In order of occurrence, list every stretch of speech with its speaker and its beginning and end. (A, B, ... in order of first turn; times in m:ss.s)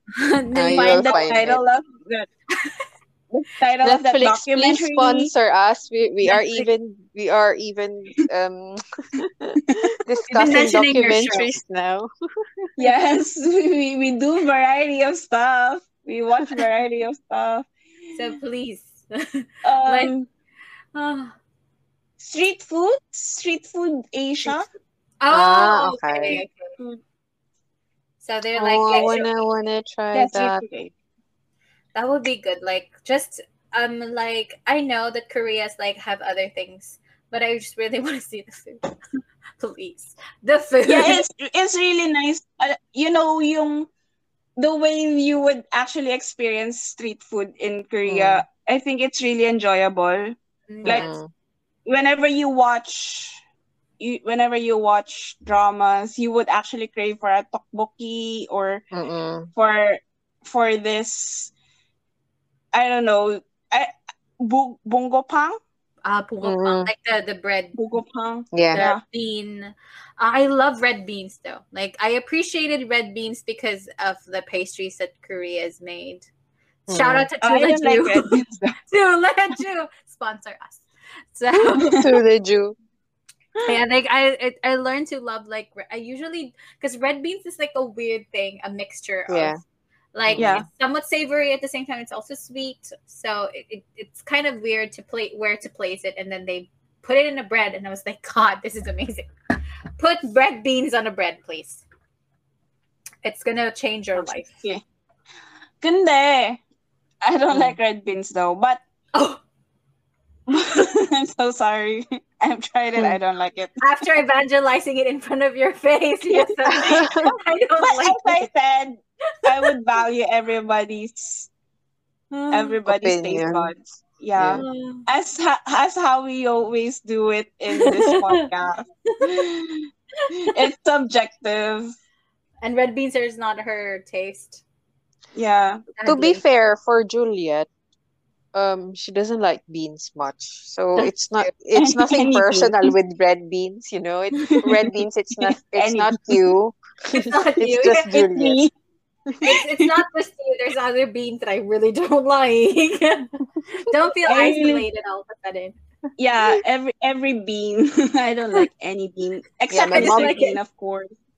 0:00.1-0:01.3 A
0:00.5-0:01.6 B
0:00.7-0:02.3 C
0:02.5-0:02.9 A
0:03.3-0:05.3 C
0:03.8-0:12.1 B
0:06.3-0:06.6 A
0:10.4-0:11.5 A
0:12.8-0:17.7 C
0:18.1-0:20.1 A
0:19.6-0:20.3 C
0:21.0-0:21.4 A
0:22.2-0:24.6 C
0:25.2-0:26.7 A
0:25.3-0:26.4 B
0:28.2-0:29.2 A
0:28.6-0:30.6 B
0:28.9-0:29.3 C
0:30.1-0:30.9 C
0:32.0-0:38.9 A
0:39.6-0:41.2 A
0:40.9-0:43.9 C
0:44.6-0:51.1 C
0:48.1-0:48.4 B
0:50.7-0:51.2 A
0:50.8-0:51.3 B
0:51.9-0:53.4 C
0:54.0-0:58.8 C
0:58.9-0:59.5 B
0:59.6-1:01.5 C
1:02.7-1:05.6 C
1:06.0-1:07.8 A
1:06.4-1:06.9 B
1:07.8-1:09.0 C
1:08.5-1:08.9 B
1:08.7-1:16.3 A
1:16.9-1:17.3 B
1:16.9-1:22.0 A
1:17.4-1:18.8 C
1:21.8-1:22.8 B
1:23.7-1:29.6 A
1:29.3-1:29.6 B
1:30.1-1:39.3 A
1:30.3-1:30.6 B
1:30.4-1:30.7 C
1:40.0-1:41.8 A
1:43.2-1:44.5 A
1:44.1-1:44.8 C
1:45.8-1:46.6 C
1:47.2-1:48.8 C
1:47.5-1:47.8 B
1:49.1-1:49.4 A
1:50.5-1:53.9 C
1:53.8-1:58.5 A
1:56.4-1:57.0 C
1:56.8-1:57.3 B
1:57.8-2:01.5 C
1:59.5-1:59.7 A
2:02.3-2:02.8 A
2:02.5-2:09.9 C
2:02.9-2:03.8 B
2:04.4-2:04.6 B
2:04.6-2:05.0 A
2:07.7-2:08.5 A
2:09.1-2:09.4 A
2:10.4-2:11.9 C
2:12.6-2:14.6 A
2:15.4-2:15.8 C
2:16.0-2:16.4 A
2:16.0-2:17.7 B
2:18.5-2:28.6 B
2:21.8-2:22.9 C
2:24.5-2:26.4 C
2:27.1-2:28.1 A
2:28.1-2:28.7 C
2:29.4-2:35.8 A
2:29.5-2:29.9 C
2:34.3-2:34.9 C
2:36.2-2:41.1 C
2:39.7-2:40.4 B
2:39.9-2:40.6 A